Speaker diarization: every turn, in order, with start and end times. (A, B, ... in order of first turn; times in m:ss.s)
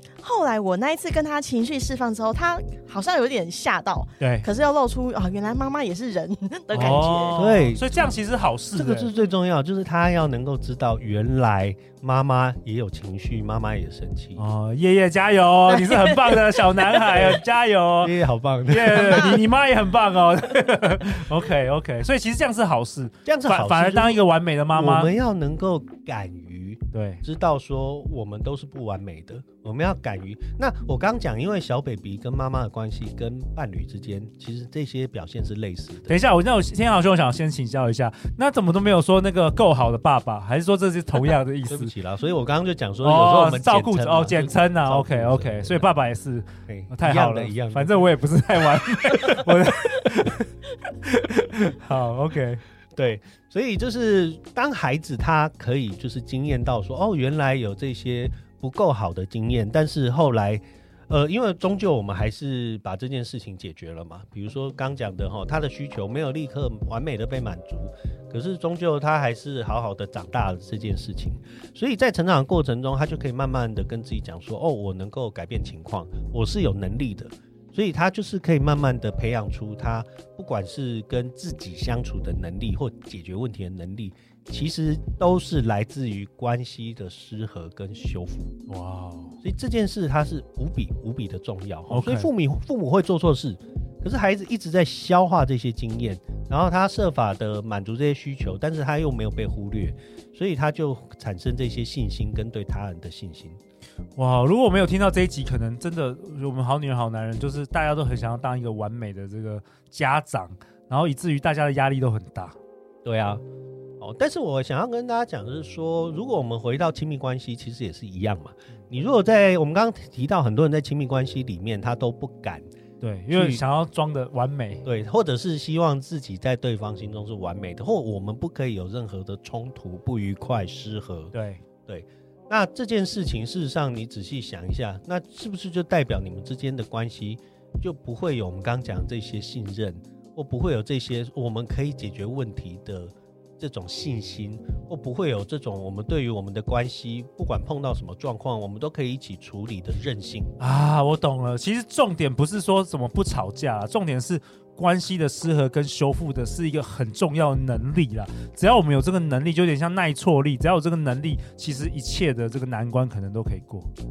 0:00.2-0:07.4 A
0:04.2-0:04.4 B
0:06.7-0:09.1 B
0:07.4-0:08.1 C
0:08.7-0:14.4 C
0:14.4-0:25.1 B
0:15.7-0:17.0 A
0:18.0-0:19.4 C
0:19.0-0:19.3 A
0:23.2-0:36.2 C
0:26.9-0:27.2 B
0:36.1-0:41.9 B
0:41.7-0:45.9 C
0:43.0-0:52.6 B
0:46.7-0:48.0 C
0:52.9-1:28.5 C
1:28.7-1:29.4 B
1:29.4-1:43.6 C
1:31.9-1:32.3 B
1:44.2-1:52.6 B
1:53.0-1:53.4 C
1:54.0-2:02.7 C
2:03.0-2:04.8 B
2:03.3-2:03.6 C
2:04.8-2:11.3 C
2:11.3-2:11.6 B
2:11.8-2:30.5 C
2:30.6-2:43.9 B